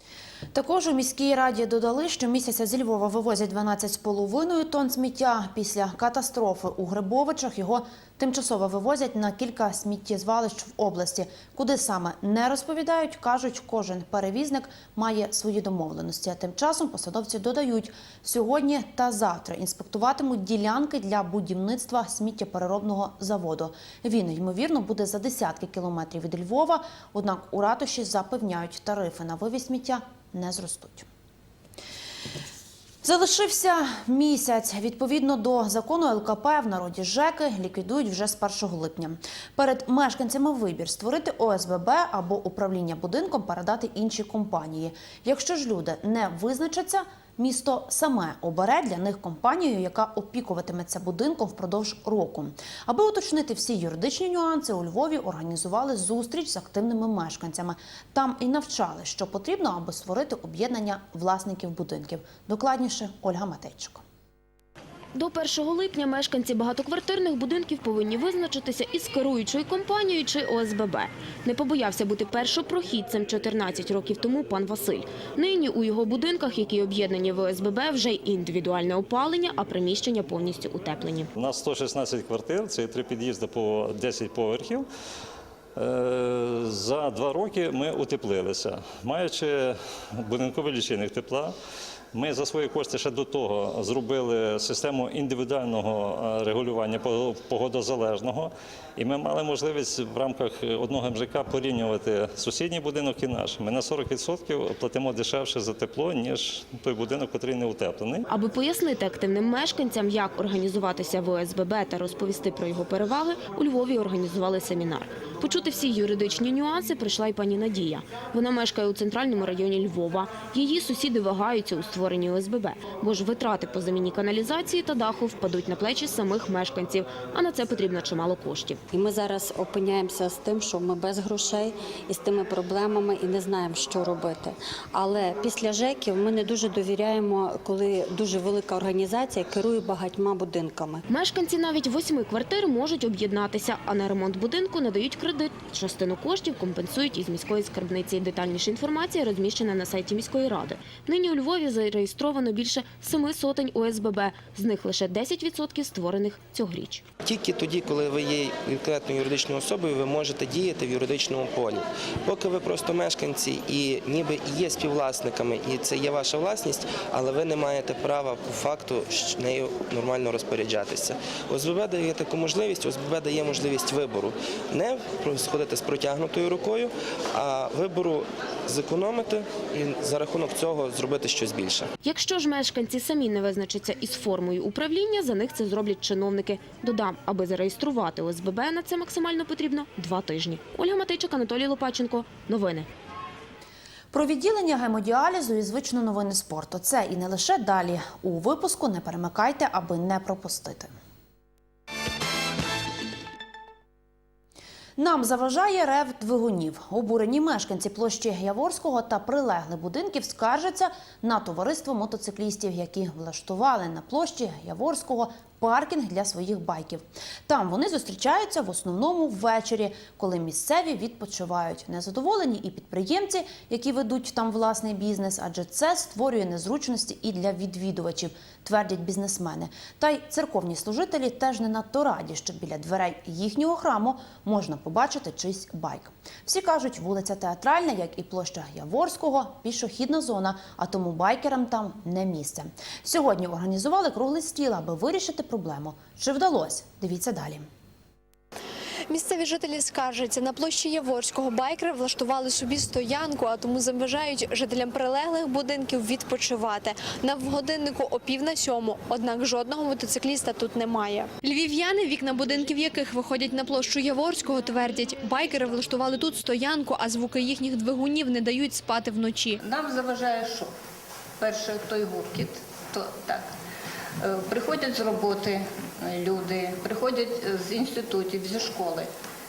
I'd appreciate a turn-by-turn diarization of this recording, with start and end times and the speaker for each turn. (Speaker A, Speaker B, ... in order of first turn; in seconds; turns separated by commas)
Speaker A: 0.5-31.1, Speaker A: 33.0-64.0, Speaker B: 65.1-81.3, Speaker C: 81.3-84.8, Speaker C: 85.8-91.5, Speaker C: 92.1-108.2, Speaker B: 108.3-128.8, Speaker D: 128.9-141.0, Speaker B: 141.1-157.0, Speaker E: 157.2-181.9, Speaker B: 182.0-192.9, Speaker A: 194.1-200.9, Speaker A: 205.0-247.7, Speaker F: 249.1-269.6, Speaker G: 269.6-270.7, Speaker G: 271.4-273.5, Speaker G: 274.2-279.1